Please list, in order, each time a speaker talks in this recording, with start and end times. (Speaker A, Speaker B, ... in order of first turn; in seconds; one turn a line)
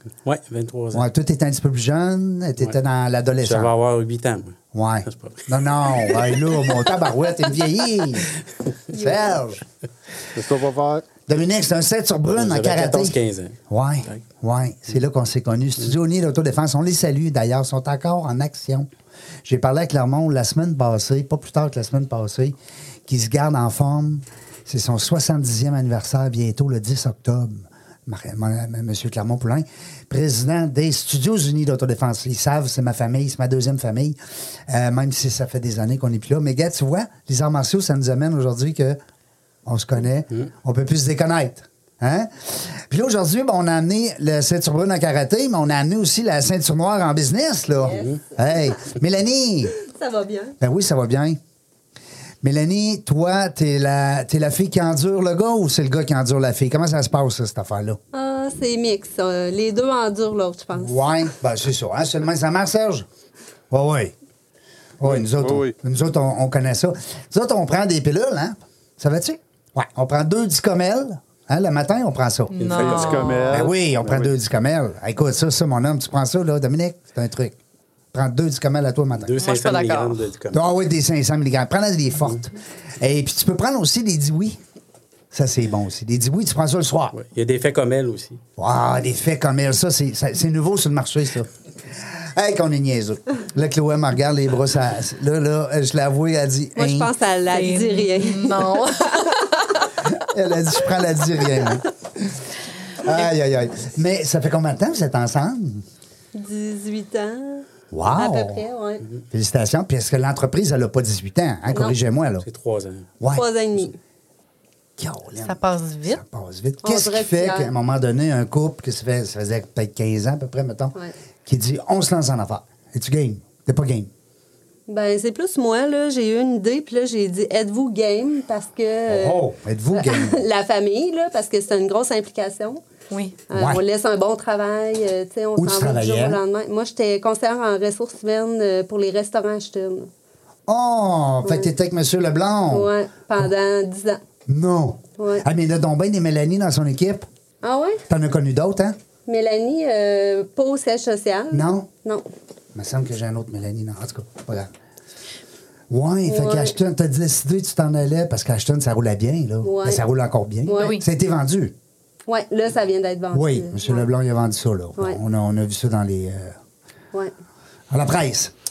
Speaker A: 0.2-1.1
Speaker B: 0.9-3.7
Speaker A: 3.4-6.4
Speaker B: 4.7-8.3
Speaker B: 8.9-9.6
Speaker C: 8.9-9.4
Speaker D: 10.3-11.1
Speaker B: 11.3-13.2
Speaker A: 12.3-14.2
Speaker B: 13.7-18.9
Speaker B: 19.4-22.5
Speaker B: 23.1-34.2
Speaker B: 34.7-39.0
Speaker B: 39.6-49.7
Speaker C: 47.8-48.5
Speaker C: 49.8-50.5
Speaker B: 50.6-51.4
Speaker B: 52.4-58.0
Speaker C: 58.1-60.9
Speaker B: 60.7-63.1
Speaker B: 63.7-64.1
Speaker B: 65.0-77.5
Speaker D: 65.0-65.7
Speaker E: 72.5-73.5
Speaker A: 72.6-73.6
Speaker D: 72.7-74.3
Speaker B: 78.1-79.3
Speaker A: 79.2-80.6
Speaker E: 79.4-80.3
Speaker B: 80.5-84.6
Speaker B: 85.3-87.1
Speaker A: 87.1-88.4
Speaker B: 88.6-91.5
Speaker B: 92.3-97.1
Speaker C: 96.8-99.2
Speaker E: 97.5-99.7
Speaker B: 100.1-101.8
Speaker B: 103.0-105.8
Speaker C: 106.3-109.0
Speaker B: 107.9-108.6
Speaker B: 109.3-112.5
Speaker C: 111.7-112.0
Speaker A: 112.4-113.1
Speaker B: 113.2-113.5
Speaker C: 113.3-114.0
Speaker B: 115.0-124.1
Speaker E: 115.4-116.2
Speaker C: 116.8-117.7
Speaker C: 124.9-132.8
Speaker B: 129.1-130.4
Speaker E: 133.1-133.3
Speaker C: 133.5-140.1
Speaker B: 133.5-133.8
Speaker B: 135.6-136.4
Speaker B: 140.7-143.5
Speaker C: 142.7-144.2
Speaker B: 144.5-147.2
Speaker C: 145.2-145.4
Speaker C: 147.6-148.0
Speaker B: 148.1-148.9
Speaker C: 149.2-152.2
Speaker B: 151.5-151.9
Speaker B: 152.7-154.7
Speaker B: 155.9-161.7
Speaker C: 156.2-156.8
Speaker C: 159.6-160.0
Speaker C: 160.6-160.9
Speaker E: 160.8-161.0
Speaker C: 162.3-164.1
Speaker B: 163.3-166.6
Speaker B: 167.9-168.5